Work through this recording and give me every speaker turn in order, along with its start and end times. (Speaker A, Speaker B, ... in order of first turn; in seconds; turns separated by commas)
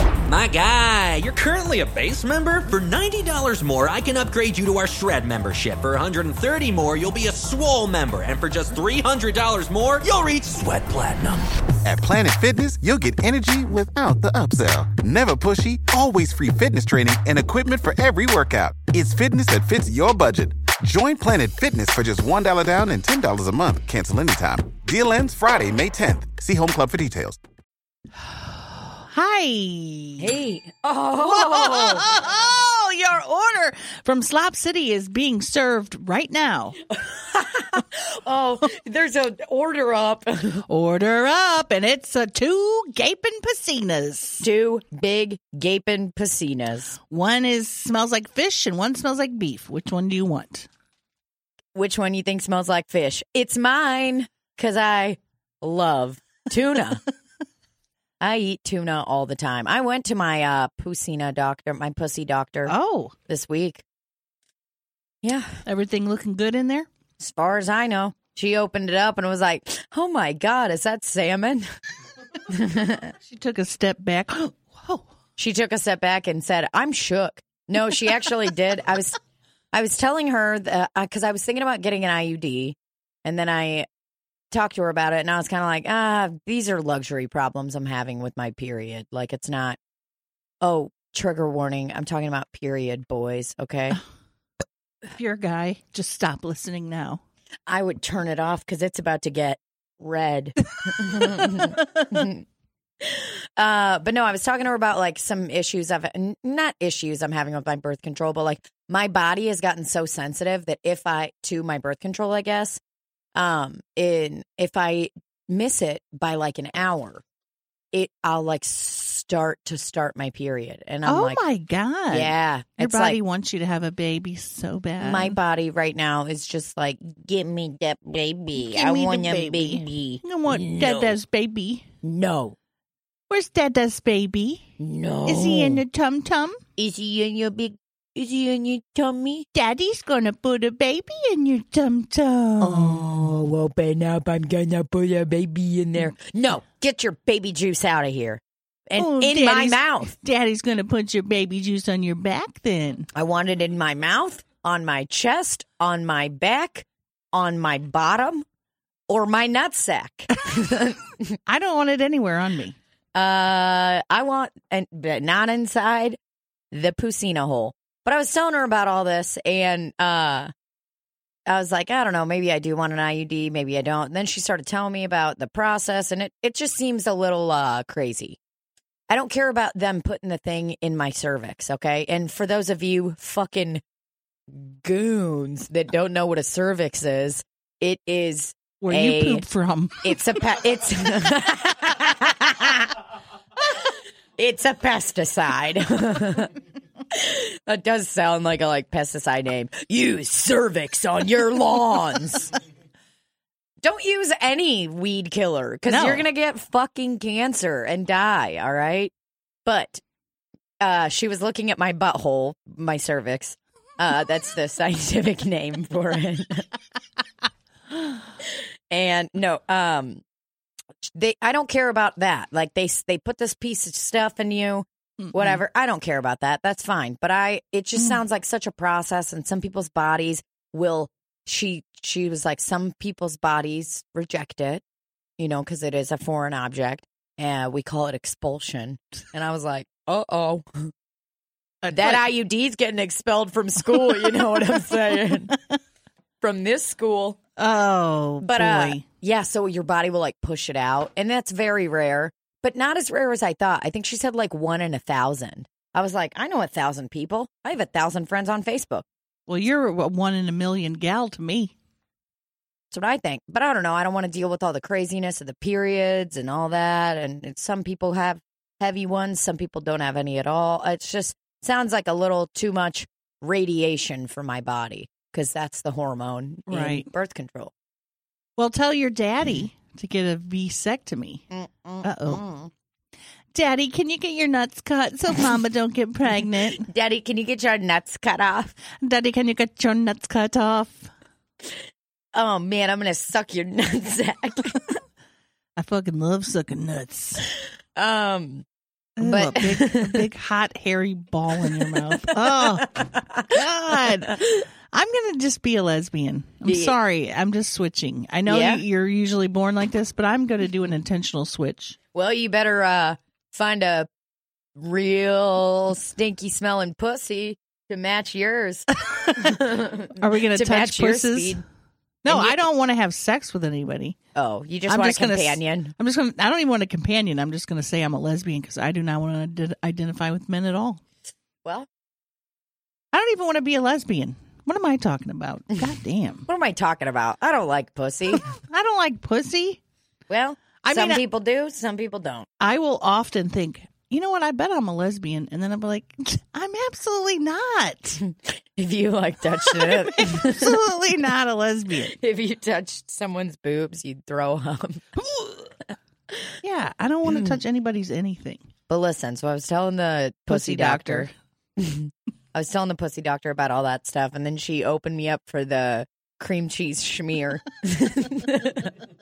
Speaker A: 0.3-11.5, Speaker B: 11.8-27.4, Speaker C: 28.2-30.3, Speaker D: 30.2-32.1, Speaker C: 31.2-36.8, Speaker D: 36.9-40.6, Speaker C: 40.7-44.5, Speaker D: 44.4-47.0, Speaker C: 47.1-50.7, Speaker D: 51.8-57.0, Speaker D: 58.2-62.8, Speaker C: 62.7-63.1, Speaker D: 63.3-63.8, Speaker D: 65.2-65.6, Speaker C: 65.7-66.9, Speaker D: 67.2-71.7, Speaker D: 72.5-73.1, Speaker C: 73.2-75.0, Speaker D: 75.4-79.2, Speaker D: 79.7-83.9, Speaker D: 84.5-89.8, Speaker D: 90.6-94.0, Speaker C: 95.0-97.2, Speaker D: 97.7-102.4, Speaker C: 100.9-102.0, Speaker D: 103.0-112.8, Speaker D: 113.3-117.2, Speaker D: 117.9-121.4, Speaker C: 121.0-125.4, Speaker D: 122.1-123.2, Speaker D: 125.0-131.1, Speaker C: 128.6-131.9, Speaker D: 132.0-132.6, Speaker C: 133.3-134.7, Speaker D: 134.8-135.8, Speaker C: 135.3-136.6, Speaker D: 136.8-139.5, Speaker C: 139.5-143.1, Speaker D: 142.6-150.1, Speaker C: 149.0-153.1, Speaker D: 153.2-158.4, Speaker D: 159.1-161.4, Speaker C: 161.5-162.8, Speaker D: 163.2-166.2, Speaker D: 166.7-170.5, Speaker D: 171.5-178.4, Speaker D: 179.1-183.8, Speaker D: 184.5-189.5, Speaker C: 188.8-190.2, Speaker D: 190.0-193.0, Speaker D: 194.4-196.6, Speaker D: 197.1-202.6, Speaker D: 203.8-209.1, Speaker C: 205.9-206.3, Speaker D: 209.7-210.0, Speaker D: 210.8-216.7, Speaker D: 218.5-220.2, Speaker D: 221.1-234.8, Speaker C: 225.2-225.6, Speaker D: 235.4-240.9, Speaker C: 241.8-242.3, Speaker D: 241.9-245.5, Speaker C: 243.9-245.8, Speaker D: 246.4-247.4, Speaker C: 247.6-249.1, Speaker D: 248.4-259.1, Speaker C: 259.5-261.7, Speaker D: 262.9-277.7, Speaker C: 276.7-277.1, Speaker C: 278.6-281.4, Speaker D: 281.5-282.7, Speaker C: 282.0-282.4, Speaker C: 283.5-286.9, Speaker D: 286.6-288.8, Speaker C: 289.0-291.1, Speaker D: 292.3-295.0, Speaker C: 295.8-297.5, Speaker D: 298.0-298.6, Speaker C: 299.2-312.0, Speaker D: 299.2-300.2, Speaker D: 301.7-302.3, Speaker D: 302.9-303.5, Speaker D: 306.6-306.9, Speaker D: 308.5-308.8, Speaker D: 312.1-314.1, Speaker D: 314.8-321.6, Speaker C: 319.1-319.6, Speaker C: 320.1-321.6, Speaker C: 322.2-324.2, Speaker D: 322.3-322.6, Speaker D: 324.4-325.9, Speaker C: 324.9-331.0, Speaker C: 333.1-336.5, Speaker D: 336.5-338.5, Speaker C: 338.4-339.8, Speaker D: 340.3-342.5, Speaker C: 340.8-341.2, Speaker C: 342.6-348.2, Speaker D: 348.2-350.8, Speaker C: 349.6-352.2, Speaker D: 352.1-355.1, Speaker C: 355.2-355.7, Speaker C: 356.6-358.7, Speaker D: 357.3-357.6, Speaker D: 358.9-368.9, Speaker C: 360.5-361.3